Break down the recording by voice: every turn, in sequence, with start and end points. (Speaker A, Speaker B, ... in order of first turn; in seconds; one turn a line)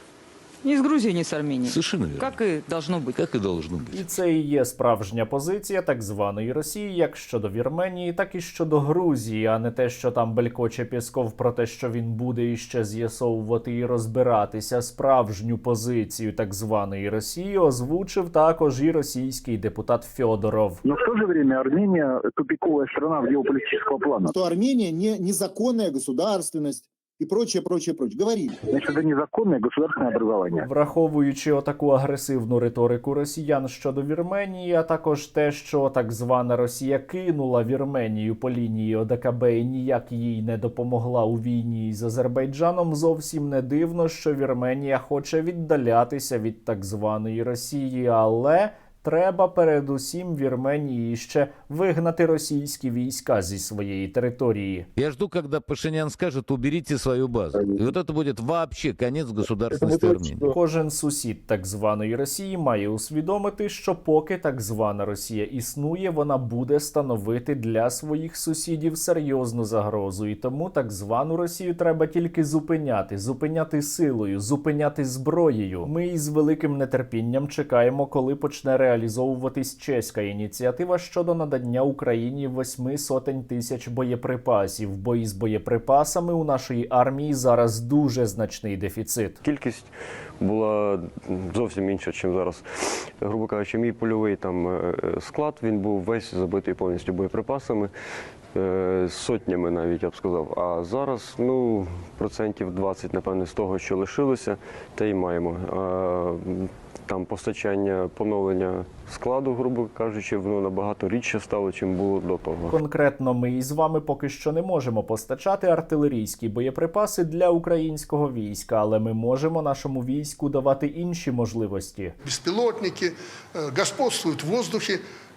Speaker A: 0.6-3.1
Speaker B: 1.6-2.4
Speaker B: 3.1-4.0
Speaker C: 3.9-20.8
Speaker D: 20.9-24.3
Speaker E: 24.3-28.6
Speaker D: 28.7-30.6
Speaker C: 30.6-54.9
Speaker B: 55.0-60.5
Speaker C: 60.5-89.4
Speaker F: 89.4-97.9
Speaker F: 98.5-112.8
Speaker C: 112.7-122.1
Speaker G: 122.2-125.0